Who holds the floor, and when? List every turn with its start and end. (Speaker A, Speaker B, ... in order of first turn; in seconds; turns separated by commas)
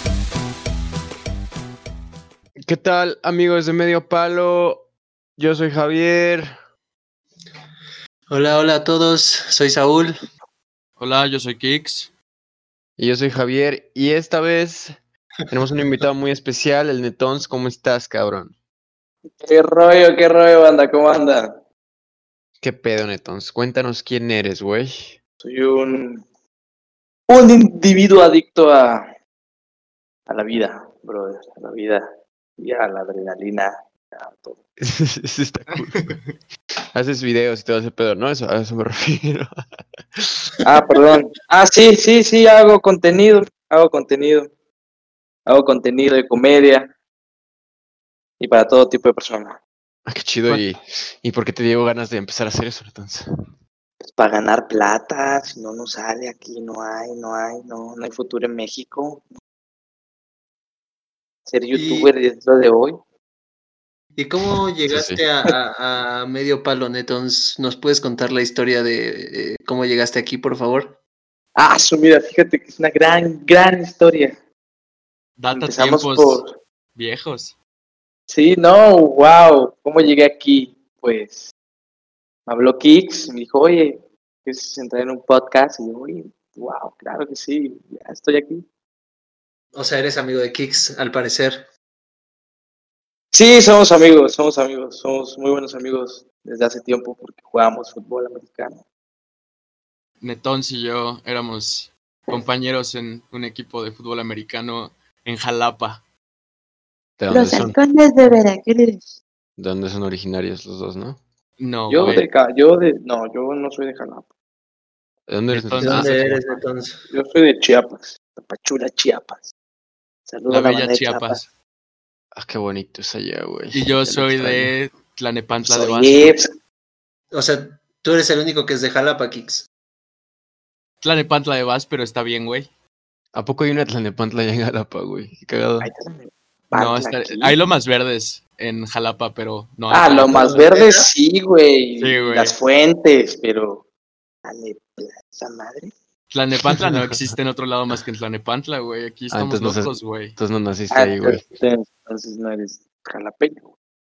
Speaker A: 2.6-6.5, Speaker B: 8.3-10.2, Speaker C: 11.0-12.1, Speaker A: 13.0-15.0, Speaker A: 15.5-18.6, Speaker D: 19.4-21.6, Speaker A: 22.6-25.2, Speaker D: 25.4-26.2, Speaker D: 27.3-29.1, Speaker D: 30.3-34.6, Speaker A: 34.8-36.3, Speaker A: 36.9-39.5, Speaker D: 40.6-44.5, Speaker D: 45.5-46.9, Speaker D: 48.4-49.6, Speaker A: 50.1-53.3, Speaker D: 54.0-59.2, Speaker D: 61.5-63.0, Speaker B: 61.7-62.1, Speaker B: 64.2-71.0, Speaker A: 64.9-65.2, Speaker D: 71.6-74.4, Speaker C: 75.4-77.5, Speaker D: 75.5-76.5, Speaker D: 78.3-81.5, Speaker D: 82.5-88.7, Speaker B: 89.7-91.7, Speaker D: 93.3-98.8, Speaker C: 100.2-106.0, Speaker A: 107.2-107.8, Speaker D: 107.3-109.2, Speaker A: 109.6-111.2, Speaker C: 111.6-112.3, Speaker D: 111.9-114.3, Speaker A: 115.3-116.3, Speaker C: 115.5-116.6, Speaker B: 115.8-117.0, Speaker D: 117.1-119.5, Speaker D: 120.3-121.4, Speaker C: 120.5-121.5, Speaker A: 122.3-124.7, Speaker C: 123.7-126.4, Speaker D: 125.7-126.5, Speaker B: 127.3-129.7, Speaker C: 131.0-132.7, Speaker A: 133.3-135.9, Speaker D: 135.8-137.6, Speaker C: 136.7-140.5, Speaker D: 139.9-143.8, Speaker B: 140.3-141.1, Speaker C: 142.0-142.6, Speaker D: 144.4-145.9, Speaker C: 146.3-150.4, Speaker A: 146.6-147.1, Speaker A: 149.3-151.5, Speaker D: 150.9-153.7